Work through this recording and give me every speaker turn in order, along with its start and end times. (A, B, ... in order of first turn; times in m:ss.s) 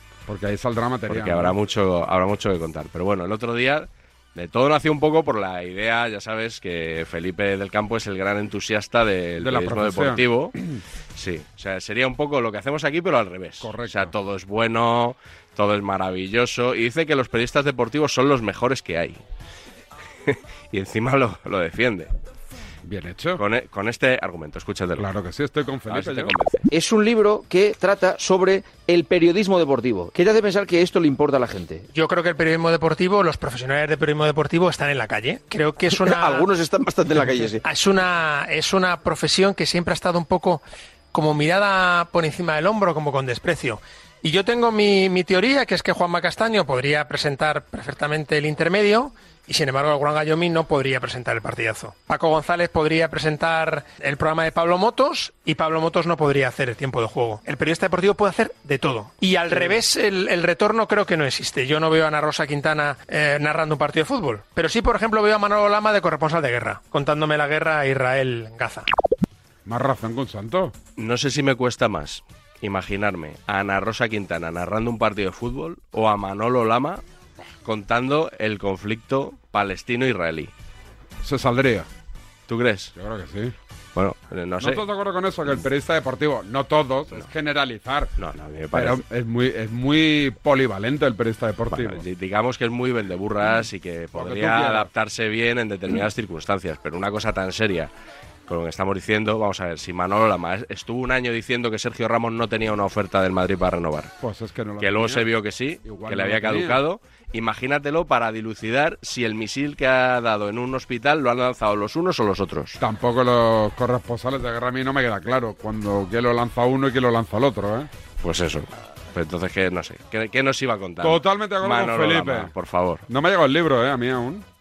0:00.3-0:01.6 A
0:01.1-0:10.6 B
0:09.4-0:10.8 A
0:11.2-0:19.2 B
0:13.6-0:14.1 A
0:20.3-0:22.1 B
0:22.8-0:23.4 A
0:23.4-0:25.1 B
0:25.0-0:26.3 A
0:25.9-0:26.7 B
0:26.7-0:31.8 C
0:31.9-0:36.5 D
0:35.9-0:37.6 C
0:37.6-0:40.6 D
0:41.1-1:08.9 D
1:09.7-1:10.8 A
1:11.0-1:17.0 B
1:17.6-1:20.5 B
1:21.2-1:21.9 A
1:22.5-1:22.9 B
1:23.0-1:23.5 A
1:24.0-1:24.8 B
1:24.6-1:28.1 A
1:28.2-1:29.0 B
1:28.7-1:32.0 A
1:31.7-1:37.9 B
1:34.1-1:34.9 A
1:38.5-1:44.1 B
1:44.2-1:45.3 A
1:44.8-1:52.8 B
1:45.8-1:46.8 A
1:52.8-1:57.9 A
1:58.2-2:03.0 B
2:01.0-2:02.5 A
2:03.1-2:04.4 A